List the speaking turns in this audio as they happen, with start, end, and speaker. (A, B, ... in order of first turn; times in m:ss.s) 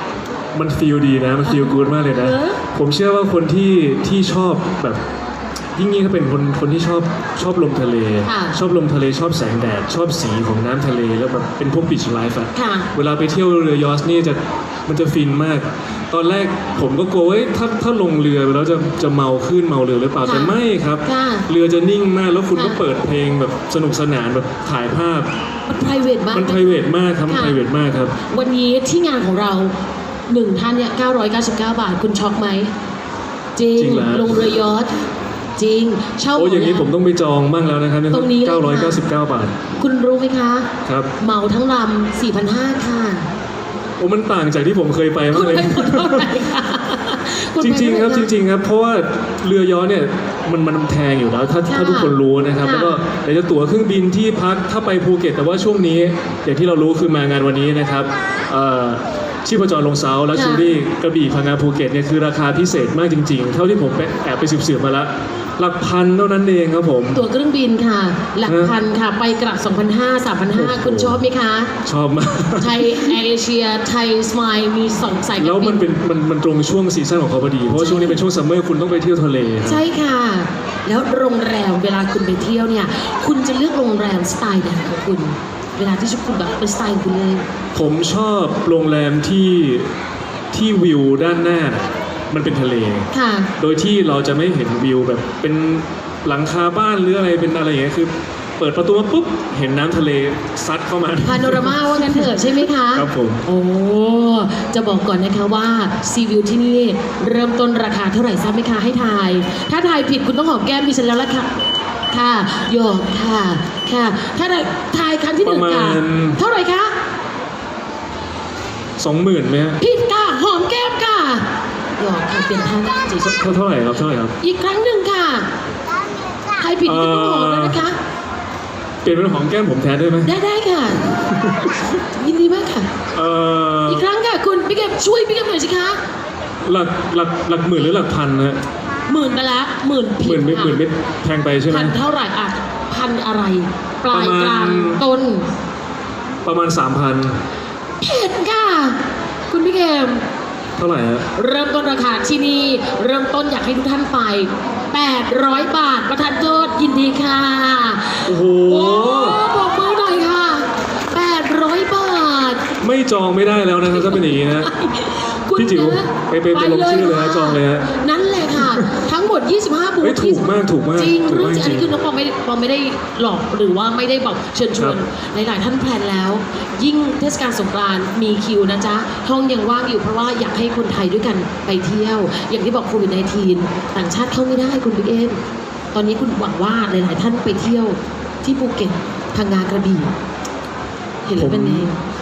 0:00.5-0:05.0 A
0:01.4-0:02.6 B
0:05.7-0:25.3 A
0:08.2-0:08.6 B
0:12.5-0:12.9 B
0:20.2-0:21.4 B
0:25.7-0:27.6 B
0:26.3-0:28.2 A
0:28.3-0:29.7 B
0:30.3-0:32.7 B
0:33.6-0:34.9 B
0:33.8-0:34.5 A
0:35.6-0:36.9 B
0:36.3-0:39.5 A
0:38.1-0:39.0 B
0:39.8-0:40.7 B
0:40.8-0:41.1 A
0:41.2-0:43.3 B
0:44.0-0:46.3 A
0:45.3-0:48.3 B
0:47.6-1:07.2 A
0:51.7-0:53.0 B
1:00.3-1:00.7 B
1:07.1-1:11.7 B
1:08.4-1:08.7 A
1:10.5-1:11.2 A
1:11.8-1:13.2 A
1:12.6-1:15.8 B
1:15.4-1:19.8 A
1:17.8-1:18.2 B
1:19.6-1:27.4 B
1:27.7-1:29.9 A
1:30.5-1:43.4 A
1:33.1-1:33.5 B
1:41.2-1:51.5 B
1:52.1-1:56.9 B
1:55.4-1:56.4 A
1:59.0-1:59.8 A
1:59.8-2:01.4 B
2:02.0-2:03.4 B
2:03.2-2:04.3 A
2:04.4-2:05.5 B
2:06.6-2:08.0 B
2:06.8-2:07.9 A
2:09.0-2:10.3 A
2:10.2-2:11.1 B
2:11.4-2:11.7 A
2:12.0-2:12.9 B
2:13.1-2:14.0 A
2:13.9-2:16.0 B
2:16.6-2:18.6 A
2:19.1-2:20.8 B
2:20.2-2:22.0 A
2:21.7-2:25.5 B
2:24.1-2:25.0 A
2:26.4-2:27.4 A
2:28.0-2:29.0 B
2:29.5-2:30.2 B
2:30.8-2:31.3 A
2:31.3-2:42.7 B
2:38.2-2:39.4 A
2:42.8-2:44.7 A
2:43.8-3:05.4 B
2:45.6-2:47.9 A
2:50.0-2:51.9 A
3:05.9-3:10.1 B
3:11.2-3:12.0 B
3:11.3-3:11.9 A